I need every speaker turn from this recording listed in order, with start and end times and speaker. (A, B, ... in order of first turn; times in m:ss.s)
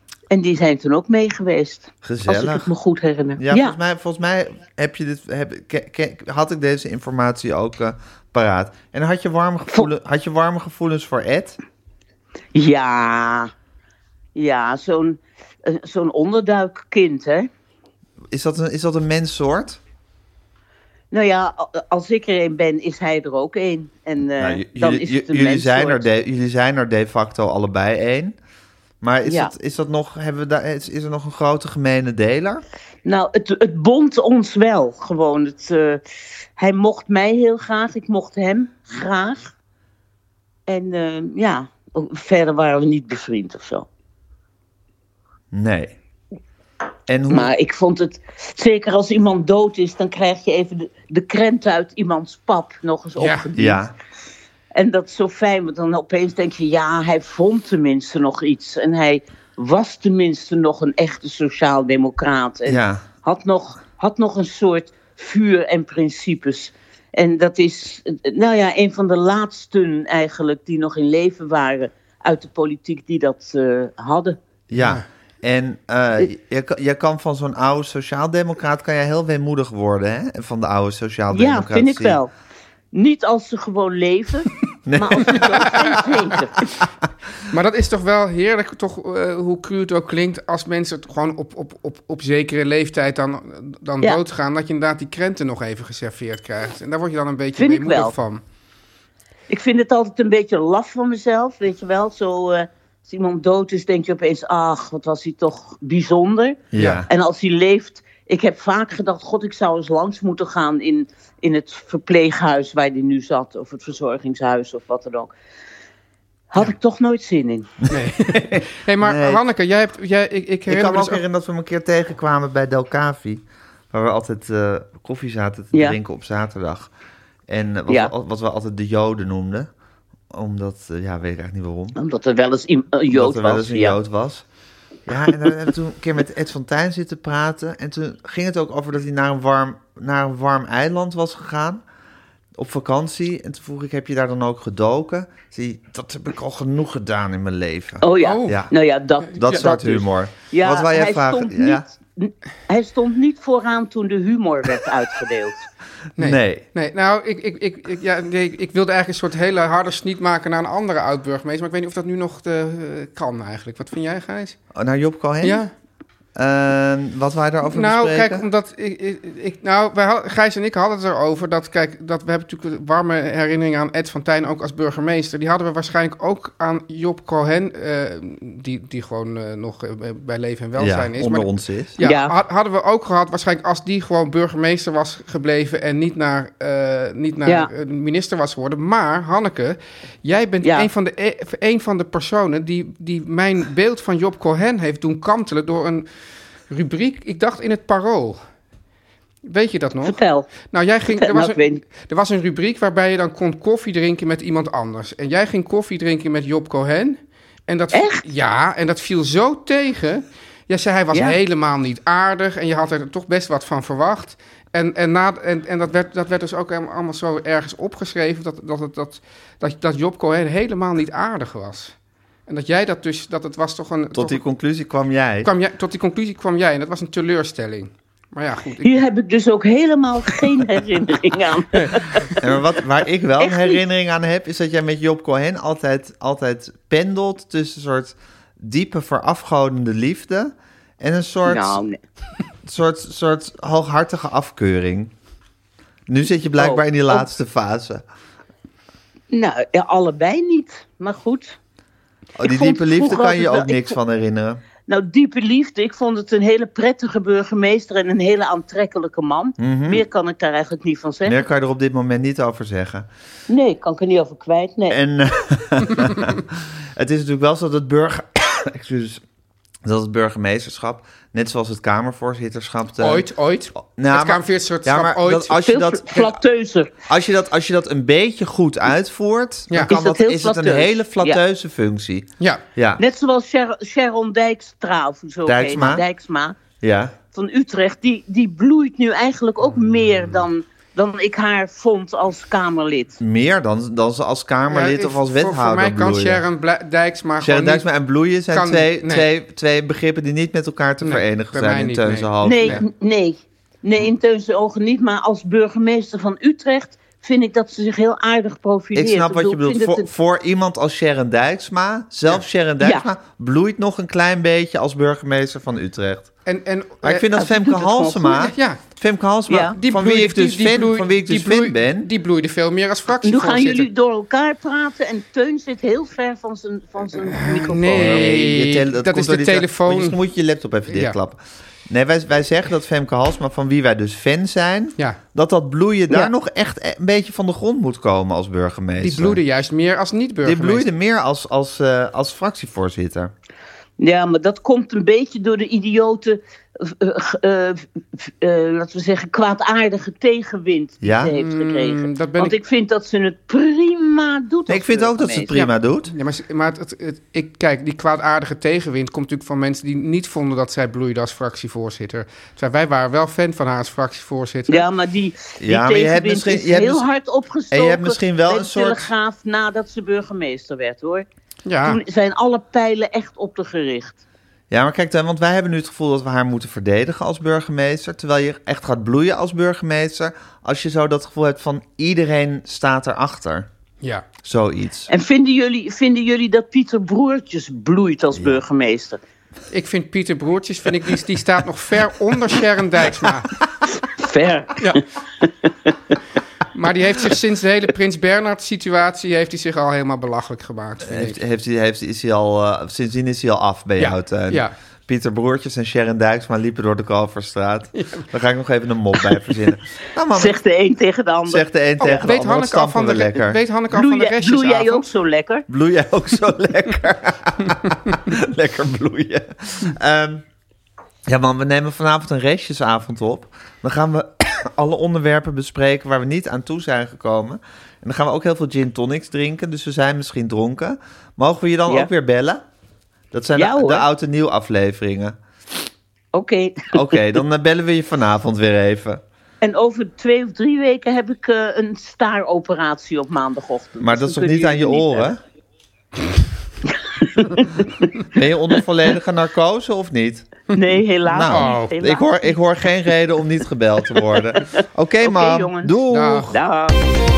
0:00.3-0:03.8 A
0:02.0-0:02.7 B
0:03.4-0:11.6 B
0:12.5-0:13.5 A
0:14.4-0:17.5 A
0:18.3-0:19.8 B
0:21.1-0:26.0 A
0:24.4-0:28.4 B
0:29.0-0:32.6 B
0:29.2-0:29.5 A
0:33.0-0:36.0 A
0:36.6-0:39.5 A
0:40.7-0:43.9 A
0:45.5-0:46.0 B
0:47.1-0:47.5 B
0:47.3-0:53.8 A
0:53.2-0:53.5 C
0:53.6-0:53.9 B
0:54.8-1:14.4 A
1:02.7-1:03.1 B
1:14.7-1:22.2 B
1:14.8-1:15.0 C
1:21.3-1:22.3 A
1:22.9-1:26.6 A
1:24.9-1:25.9 B
1:27.5-1:38.4 C
1:37.6-1:38.1 A
1:39.5-1:55.3 A
1:46.7-1:47.1 B
1:46.8-1:47.0 C
1:56.5-1:57.8 A
1:57.9-2:01.2 C
1:58.3-1:59.4 B
2:00.7-2:06.9 B
2:05.7-2:06.0 A
2:07.5-2:09.7 B
2:10.3-2:12.0 B
2:12.0-2:14.0 A
2:13.1-2:14.4 B
2:15.1-2:21.8 B
2:22.6-2:28.7 B
2:28.0-2:35.7 A
2:28.2-2:28.6 C
2:29.3-2:29.6 C
2:29.3-2:31.8 B
2:36.2-2:44.6 C
2:36.2-2:36.6 B
2:44.7-2:45.7 B
2:45.4-2:45.7 C
2:46.4-2:48.4 B
2:47.7-3:16.1 C
3:00.8-3:02.0 B
3:02.0-3:02.4 A
3:10.6-3:10.9 A
3:16.7-3:18.4 C
3:19.4-3:42.0 C
3:20.0-3:20.5 A
3:21.1-3:21.8 A
3:27.9-3:28.2 A
3:31.1-3:31.4 A
3:42.5-3:44.4 C
3:44.1-3:45.5 B
3:45.4-3:49.0 C
3:48.8-3:52.6 A
3:52.4-4:01.8 B
3:53.4-3:53.8 A
4:01.5-4:02.0 A
4:02.7-4:05.1 B
4:06.1-4:08.0 B
4:06.6-4:07.3 A
4:09.3-4:11.6 A
4:12.4-4:14.6 B
4:12.4-4:14.0 A
4:14.8-4:21.4 A
4:19.6-4:20.0 B
4:21.2-4:23.1 B
4:23.5-4:25.0 A
4:24.9-4:29.2 B
4:29.8-4:36.4 B
4:33.0-4:35.6 C
4:35.6-4:36.9 A
4:37.1-4:43.0 B
4:39.7-4:40.0 C
4:39.8-4:41.4 A
4:43.0-4:46.6 A
4:45.5-4:46.0 B
4:46.8-4:47.2 B
4:47.3-4:53.2 A
4:53.2-4:56.4 B
4:54.7-4:57.8 C
4:57.4-5:02.8 B
4:58.5-4:59.3 C
5:01.0-5:02.8 C
5:02.4-5:10.1 A
5:08.9-5:16.3 B
5:12.8-5:13.1 A
5:16.5-5:17.3 C
5:17.0-5:22.1 B
5:17.3-5:18.4 A
5:18.4-5:18.8 C
5:19.5-5:19.8 A
5:19.8-5:23.9 C
5:23.2-5:28.4 A
5:27.3-5:30.2 C
5:27.9-5:39.4 B
5:30.9-5:31.2 C
5:39.0-5:40.9 C
5:40.4-5:43.3 B
5:44.0-5:55.7 A
5:51.0-5:51.3 B
5:51.4-5:52.6 C
5:54.7-5:56.1 B
5:56.1-6:04.9 C
6:04.7-6:11.3 A
6:05.6-6:07.1 B
6:07.7-6:09.1 B
6:11.6-6:12.0 C
6:11.8-6:14.2 A
6:14.7-6:23.7 B
6:24.4-6:25.1 B
6:25.1-6:29.2 A
6:28.3-6:28.6 B
6:29.7-6:33.5 C
6:34.2-6:35.9 A
6:36.7-6:41.4 C
6:41.0-6:50.6 B
6:44.0-6:44.7 C
6:48.0-6:48.2 C
6:50.3-6:52.3 A
6:51.5-6:53.6 B
6:52.0-6:55.1 C
6:53.9-6:55.6 A
6:55.7-7:00.4 B
7:01.3-7:12.6 B
7:13.3-7:15.4 B
7:13.6-7:14.1 A
7:16.3-7:17.4 A
7:16.9-7:19.2 B
7:19.6-7:25.3 A
7:24.0-7:25.4 B
7:27.2-7:28.1 A
7:28.3-7:30.5 B
7:30.8-7:32.4 A
7:31.3-7:36.6 B
7:31.5-7:32.0 C
7:34.2-7:36.0 A
7:36.1-7:36.5 C
7:36.5-7:37.0 A